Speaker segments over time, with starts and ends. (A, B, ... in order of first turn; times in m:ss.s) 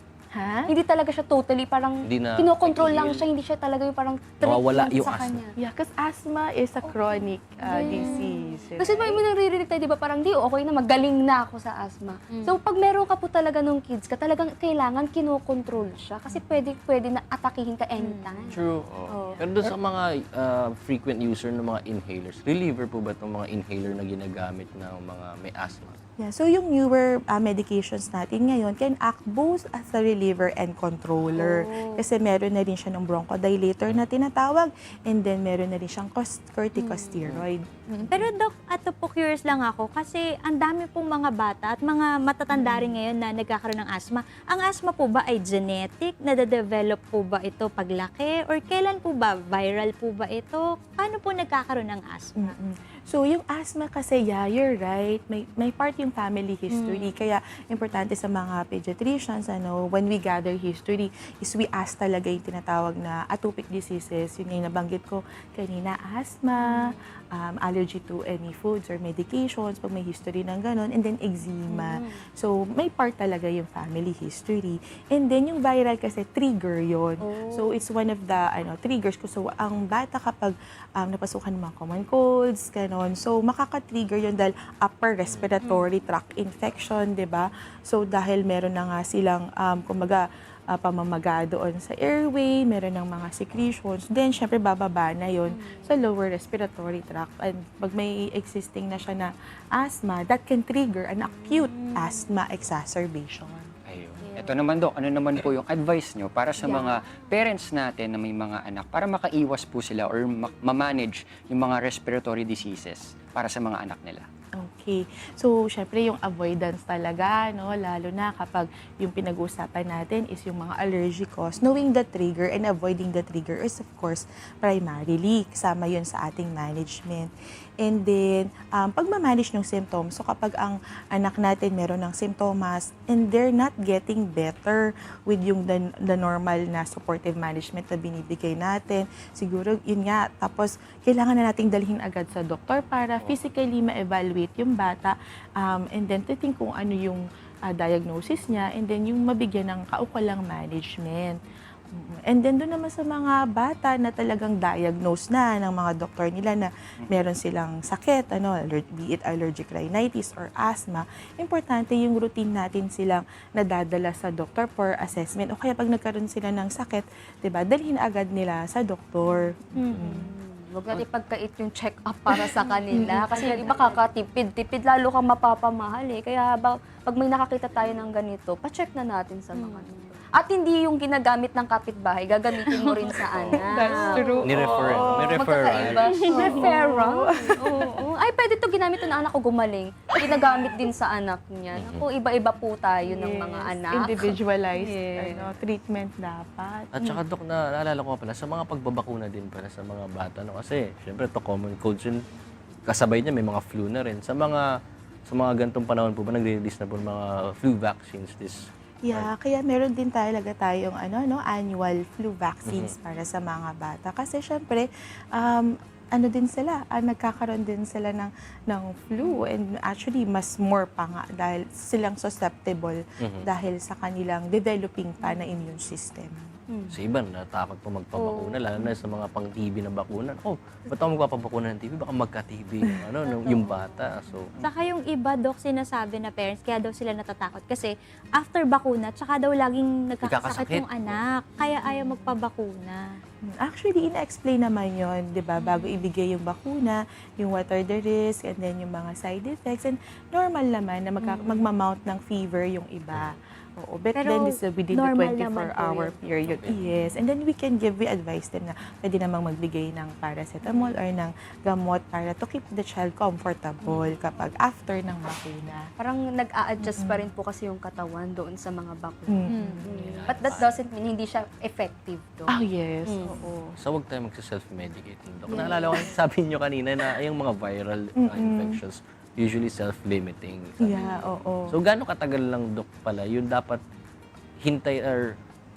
0:00.3-0:00.7 A
0:00.7-0:05.5 B
0:02.0-0:03.3 C
0:04.4-0:05.4 C
0:05.6-0:09.2 A
0:06.8-0:19.5 B
0:07.9-0:08.3 D
0:18.0-0:18.6 D
0:18.5-0:26.0 C
0:26.2-0:38.3 A
0:31.3-0:32.0 B
0:36.8-0:37.2 B
0:38.1-0:52.6 D
0:42.5-0:42.9 A
0:52.4-1:43.7 A
0:56.7-0:57.1 B
1:06.6-1:06.9 B
1:11.7-1:12.2 B
1:17.2-1:17.7 B
1:25.2-1:25.6 C
1:35.5-1:36.0 B
1:41.2-1:42.3 B
1:43.9-1:54.2 E
1:44.2-1:44.6 B
1:46.6-1:47.2 B
1:54.6-2:07.3 A
2:07.8-2:31.4 A
2:31.9-2:50.2 A
2:49.9-3:04.4 B
2:52.9-2:53.2 A
2:53.3-2:54.0 D
3:03.3-3:03.6 C
3:03.6-3:05.4 A
3:04.4-3:06.6 C
3:05.0-3:15.5 B
3:06.0-3:08.0 A
3:11.7-3:12.1 C
3:13.0-3:16.9 A
3:16.9-3:22.2 C
3:22.8-3:24.6 C
3:25.3-3:29.3 C
3:29.0-3:46.4 A
3:32.6-3:32.9 C
3:39.2-3:39.5 B
3:43.2-3:43.5 C
3:45.2-3:45.6 B
3:46.9-3:54.7 C
3:48.1-3:48.6 B
3:53.3-3:54.0 B
3:54.6-4:03.0 D
4:00.2-4:01.2 C
4:03.5-4:25.8 A
4:05.6-4:06.0 B
4:11.2-4:11.6 B
4:14.1-4:16.1 D
4:16.4-4:16.8 C
4:20.6-4:21.0 B
4:26.0-4:33.4 B
4:26.9-4:27.3 A
4:29.3-4:30.5 A
4:29.8-4:30.8 C
4:32.5-4:33.7 A
4:33.8-4:41.0 C
4:35.5-4:36.1 B
4:38.2-4:38.8 A
4:40.8-4:41.8 A
4:40.9-4:41.4 B
4:41.7-4:43.8 C
4:44.6-4:45.3 C